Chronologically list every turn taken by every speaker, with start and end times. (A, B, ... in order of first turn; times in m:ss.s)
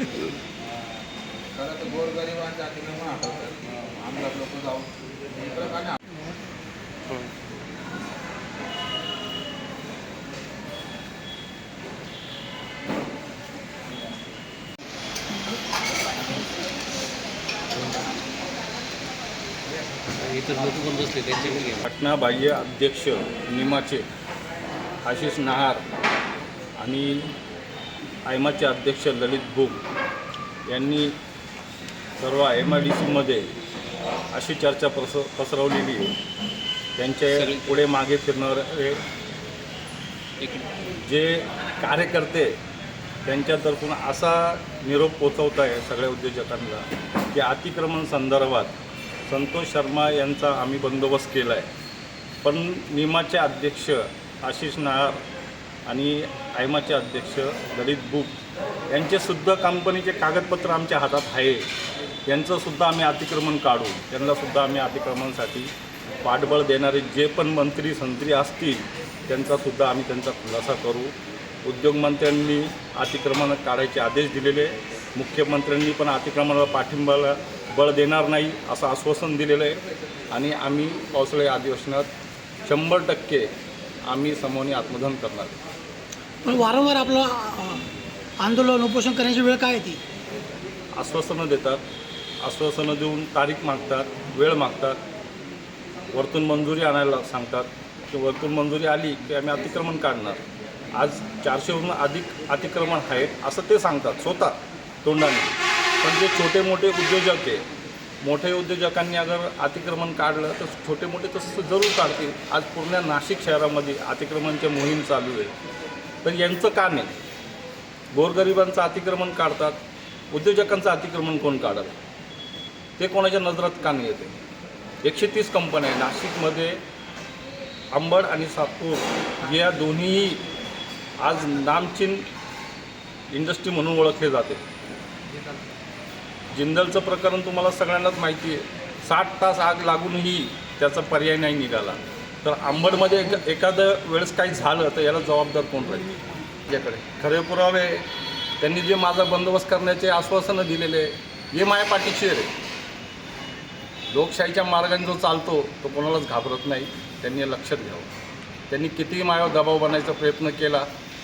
0:01.6-0:05.9 A
0:20.1-0:21.8 B
0:21.8-0:24.0 C
0:25.0-0:25.8 C
0:26.8-0:27.3 C
0:28.2-0:29.8 C
0:30.7-0:31.2 C
0:32.2-0:33.5 C
0:34.3-0:36.2 C
0:37.0-0:39.0 C
0:37.4-0:37.7 B
0:40.4-0:40.7 B
0:41.0-0:42.5 C
0:43.2-0:48.7 C
0:49.3-0:51.7 C
0:52.4-0:55.2 C
0:55.9-0:58.4 C
0:58.9-1:01.6 C
1:02.3-1:05.7 C
1:06.2-1:11.1 C
1:11.6-1:22.1 C
1:22.6-1:23.5 C
1:24.1-1:25.6 C
1:26.4-1:27.8 D
1:28.4-1:30.0 D
1:31.0-1:31.8 C
1:32.4-1:35.0 C
1:36.1-1:40.4 C
1:40.9-1:47.6 C
1:48.2-1:55.5 C
1:56.2-1:57.2 C
1:58.1-1:59.8 C
2:00.3-2:02.0 C
2:03.0-2:04.3 C
2:05.0-2:06.8 C
2:07.9-2:10.4 C
2:11.2-2:12.2 C
2:13.3-2:14.6 C
2:16.5-2:28.1 C
2:28.6-2:32.5 C
2:34.1-2:38.1 C
2:38.7-2:40.9 C